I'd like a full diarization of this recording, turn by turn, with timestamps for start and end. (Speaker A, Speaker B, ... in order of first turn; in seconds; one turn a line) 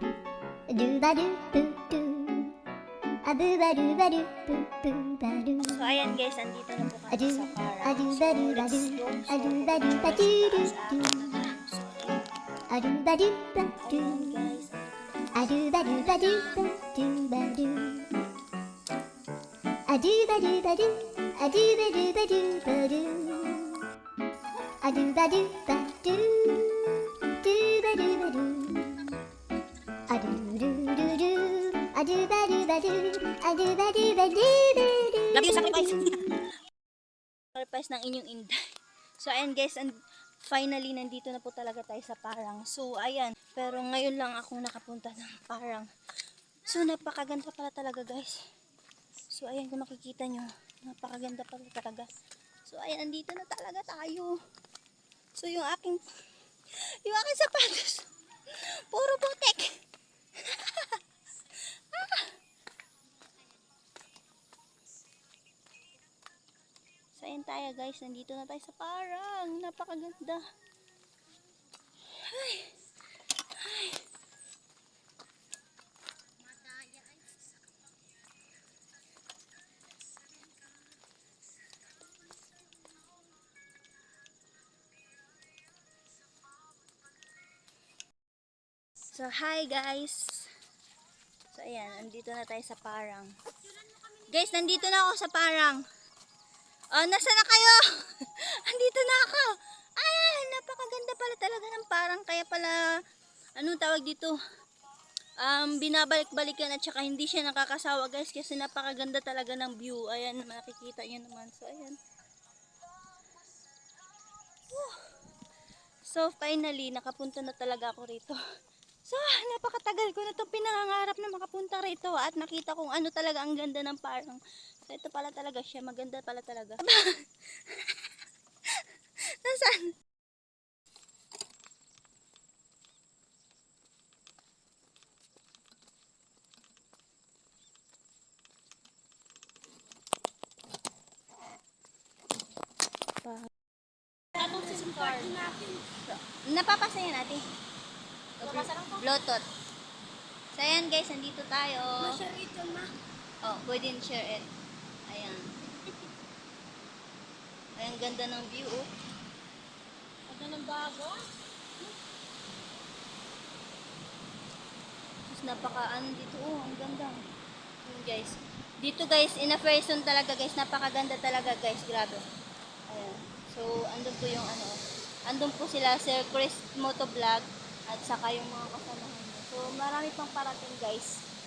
Speaker A: 0.7-2.6
Speaker A: 3.2-5.8
Speaker B: 5.7-12.2
Speaker A: 7.1-11.5
Speaker A: 12.7-14.4
Speaker B: 13.8-14.7
Speaker A: 15.3-18.1
Speaker A: 19.9-23.8
Speaker A: 24.8-29.2
Speaker A: 30.1-36.1
Speaker B: 35.3-36.2
Speaker B: 37.5-38.6
Speaker B: 39.2-45.9
Speaker B: 46.7-48.4
Speaker B: 49.3-52.1
Speaker B: 52.6-54.4
Speaker B: 55.4-56.0
Speaker B: 57.0-58.0
Speaker B: 58.9-59.8
Speaker B: 60.5-61.0
Speaker B: 61.9-62.3
Speaker B: 67.2-70.4
Speaker B: 72.2-72.7
Speaker B: 73.6-74.0
Speaker B: 89.1-90.5
Speaker B: 91.5-93.3
Speaker B: 94.3-95.8
Speaker B: 96.9-102.8
Speaker B: 103.5-104.4
Speaker B: 105.4-112.0
Speaker B: 114.7-115.0
Speaker B: 116.0-118.4
Speaker B: 119.1-127.2
Speaker B: 129.4-129.9
Speaker B: 143.2-143.5
Speaker C: 144.3-145.6
Speaker B: 144.4-147.4
Speaker B: 148.4-149.4
Speaker C: 148.4-149.0
Speaker B: 150.5-152.3
Speaker C: 152.4-152.8
Speaker B: 153.4-154.5
Speaker B: 155.1-155.5
Speaker B: 157.8-158.9
Speaker C: 160.3-161.2
Speaker B: 165.3-167.2
Speaker B: 167.8-172.2
Speaker B: 172.9-181.2